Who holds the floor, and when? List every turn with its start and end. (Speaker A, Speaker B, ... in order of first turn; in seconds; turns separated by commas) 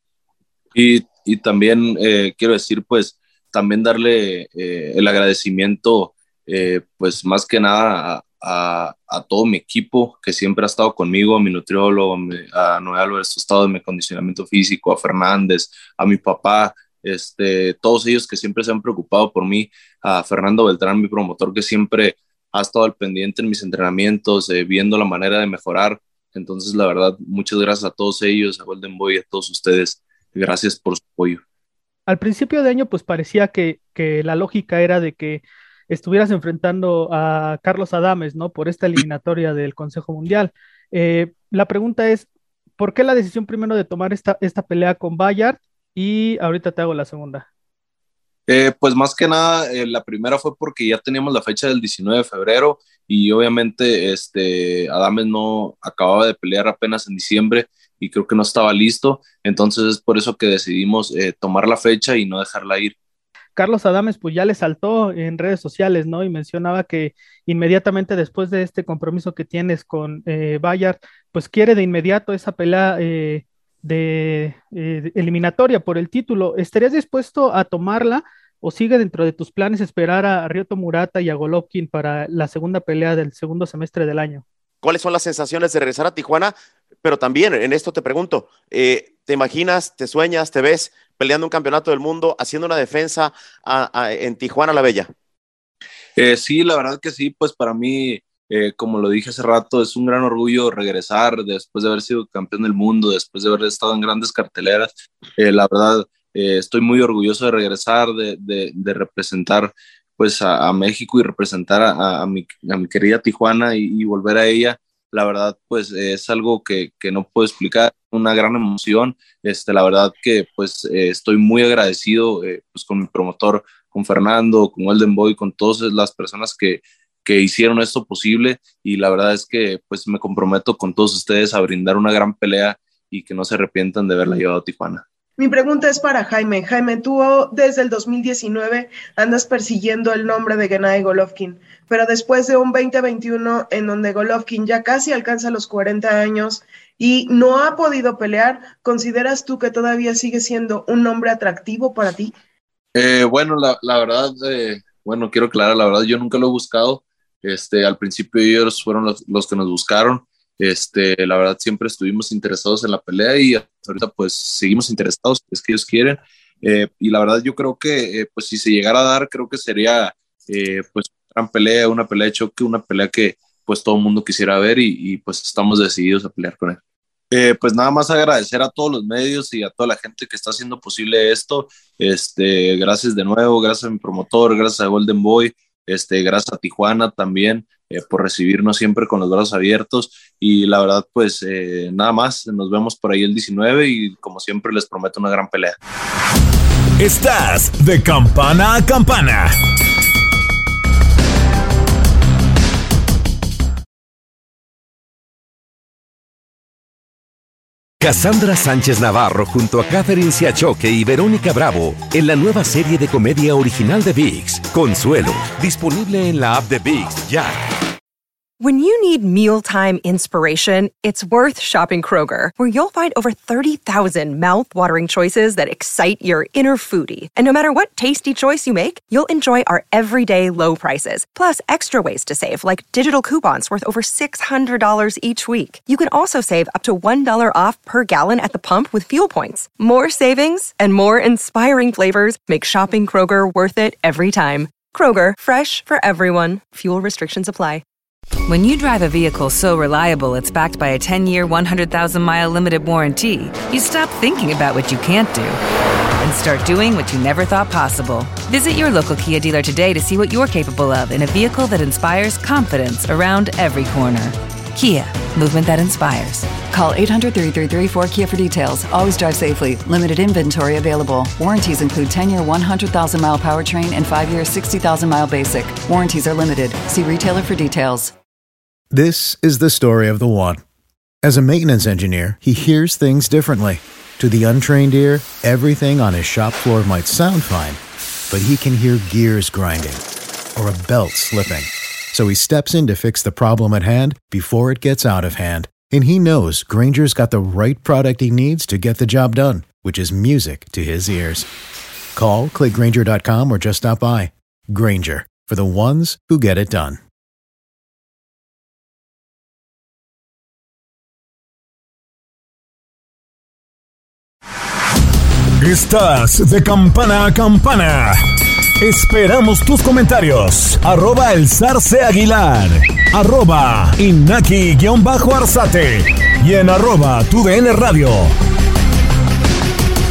Speaker A: 0.7-31.4, Speaker B: 32.1-42.3, Speaker B: 42.8-47.5, Speaker A: 48.5-63.0, Speaker B: 63.6-84.4, Speaker C: 84.8-95.1, Speaker A: 96.2-135.0, Speaker D: 135.4-152.3, Speaker A: 152.9-176.8, Speaker A: 177.3-195.8, Speaker E: 197.0-199.6, Speaker F: 208.0-217.6, Speaker G: 218.6-247.8, Speaker H: 248.5-255.6, Speaker H: 256.2-266.6, Speaker I: 266.6-278.1, Speaker J: 278.9-280.6, Speaker J: 281.2-290.0, Speaker J: 290.6-301.5, Speaker J: 302.1-307.0, Speaker E: 315.6-318.2, Speaker E: 318.8-328.3